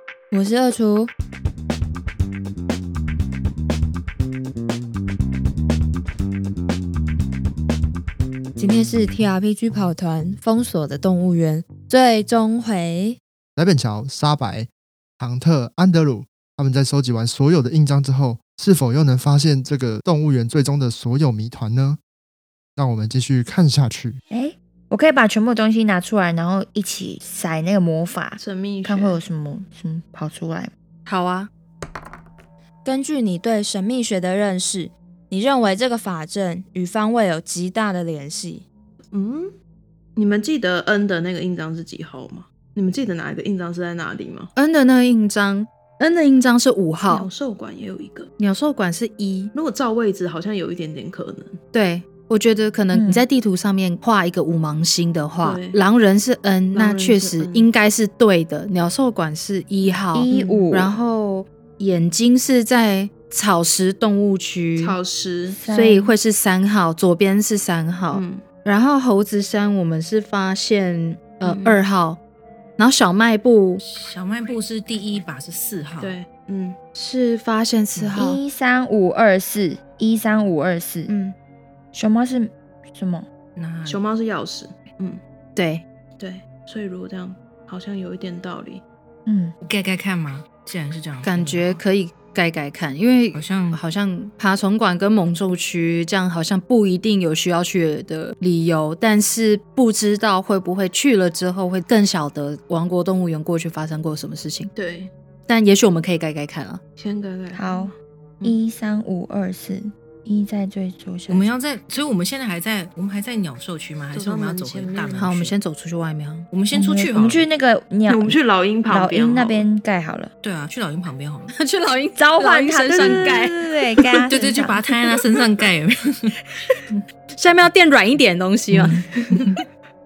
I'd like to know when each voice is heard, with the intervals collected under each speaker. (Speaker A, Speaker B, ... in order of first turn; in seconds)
Speaker A: 0.3-1.1, 8.6-13.2, 32.8-38.6
Speaker B: 13.6-22.0, 22.8-24.2
Speaker C: 24.3-30.7, 52.9-53.2, 60.1-60.9, 65.5-66.1, 78.2-81.1, 81.9-83.3, 89.3-89.5, 107.5-111.5, 116.7-118.4, 118.9-120.3, 122.2-124.8
Speaker D: 28.4-29.2, 39.1-39.5, 40.2-44.5, 47.0-48.3, 49.5-51.6, 55.4-55.8, 56.7-57.7, 60.3-60.7, 64.8-65.6, 68.1-68.4, 71.4-71.8, 76.0-76.8, 83.8-85.2, 86.2-88.8, 104.8-105.1, 107.0-108.6, 114.1-115.2, 118.1-119.7
Speaker E: 31.1-31.5, 44.6-47.3, 48.4-49.5, 51.7-65.0, 65.7-72.2, 72.8-73.8, 77.0-78.4, 81.1-81.3, 85.6-85.8, 91.2-104.7, 105.5-106.8, 115.2-116.5, 121.5-123.6, 127.3-129.4
Speaker F: 73.8-76.2, 83.6-84.0, 89.6-91.8, 93.3-93.8, 111.3-115.5, 116.5-117.5, 120.4-121.5, 124.3-127.0, 128.7-129.6